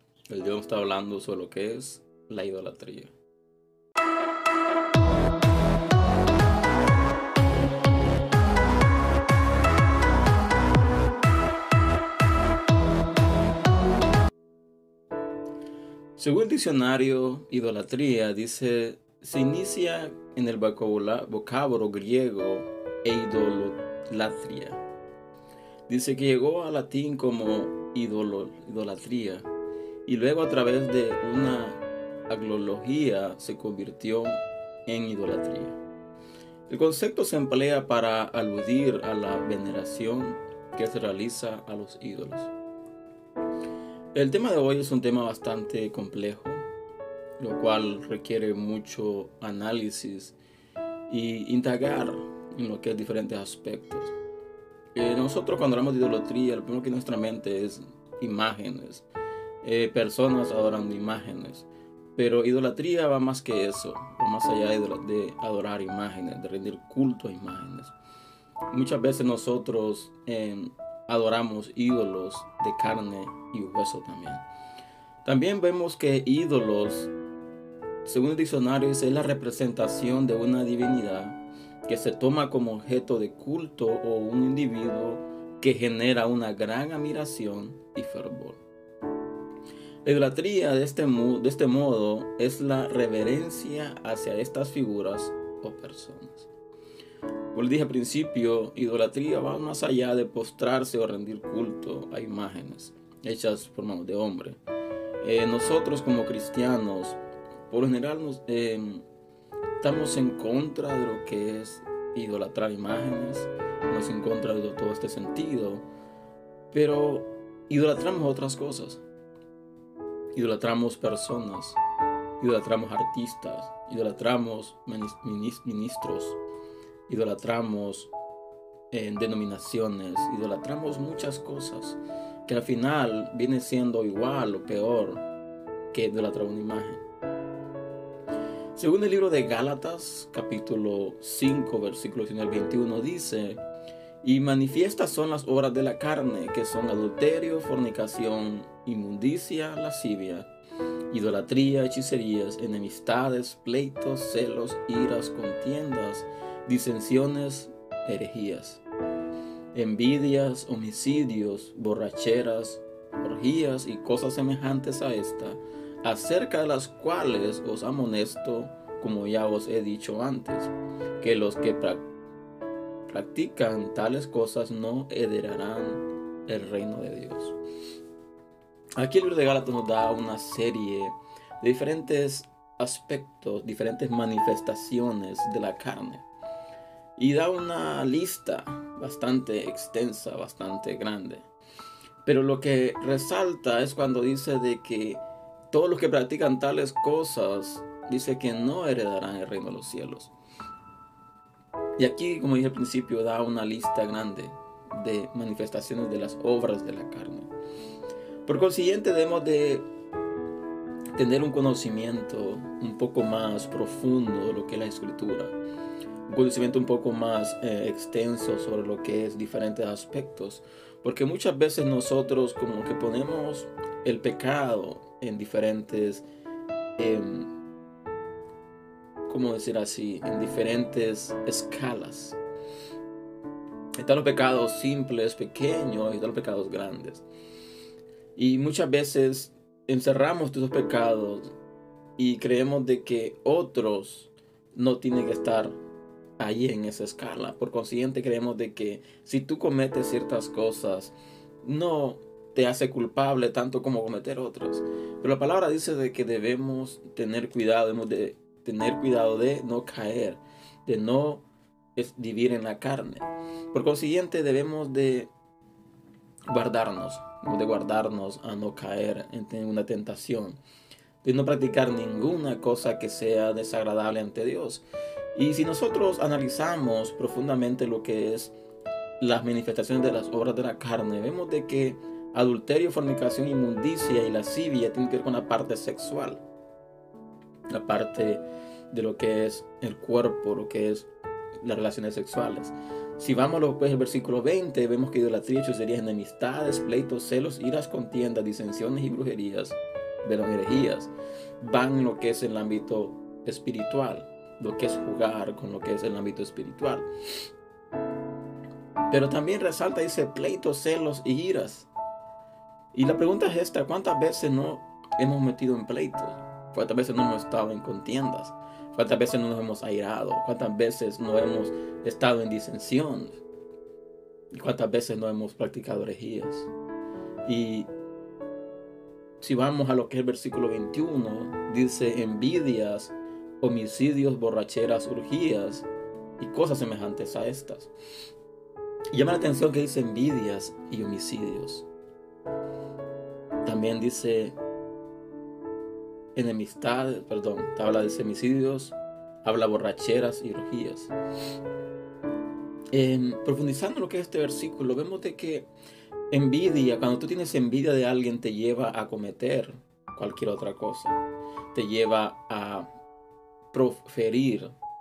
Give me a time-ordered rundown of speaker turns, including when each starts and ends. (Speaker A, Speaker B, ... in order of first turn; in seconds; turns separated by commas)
Speaker A: 0.3-3.1, Speaker A: 16.2-24.8, Speaker A: 25.9-29.5, Speaker A: 30.1-35.8, Speaker A: 36.7-42.5, Speaker A: 44.1-46.6, Speaker A: 47.4-50.4, Speaker A: 51.1-54.1, Speaker A: 54.9-59.0, Speaker A: 59.6-67.9, Speaker A: 68.7-74.4, Speaker A: 75.2-77.1, Speaker A: 78.0-88.6, Speaker A: 90.0-96.5, Speaker A: 97.5-104.6, Speaker A: 105.2-107.2, Speaker A: 107.7-109.0, Speaker A: 109.8-115.8, Speaker A: 116.7-119.0, Speaker A: 120.3-121.8, Speaker A: 122.4-126.4, Speaker A: 127.1-128.1, Speaker A: 128.9-135.2, Speaker A: 135.9-137.0, Speaker A: 138.7-143.6, Speaker A: 144.2-150.5, Speaker A: 151.1-158.8, Speaker A: 159.7-172.1, Speaker A: 173.1-177.6, Speaker A: 179.0-186.2, Speaker A: 187.2-191.4, Speaker A: 192.2-200.3, Speaker A: 202.0-207.5, Speaker A: 208.4-209.8, Speaker A: 211.1-215.6, Speaker A: 216.3-226.2, Speaker A: 227.0-227.5, Speaker A: 229.2-232.4, Speaker A: 234.0-237.2, Speaker A: 238.3-241.5, Speaker A: 242.2-245.8, Speaker A: 246.4-261.4, Speaker A: 261.9-265.3, Speaker A: 266.5-270.6, Speaker A: 271.2-278.6, Speaker A: 279.2-286.4, Speaker A: 287.7-291.1, Speaker A: 291.6-307.1, Speaker A: 309.1-311.9, Speaker A: 312.9-323.4, Speaker A: 324.5-326.7, Speaker A: 327.4-327.9, Speaker A: 329.4-335.9, Speaker A: 336.4-337.9, Speaker A: 339.1-341.9, Speaker A: 343.6-344.6, Speaker A: 346.3-351.1, Speaker A: 352.9-355.7, Speaker A: 356.3-361.2, Speaker A: 361.7-362.9, Speaker A: 363.7-364.7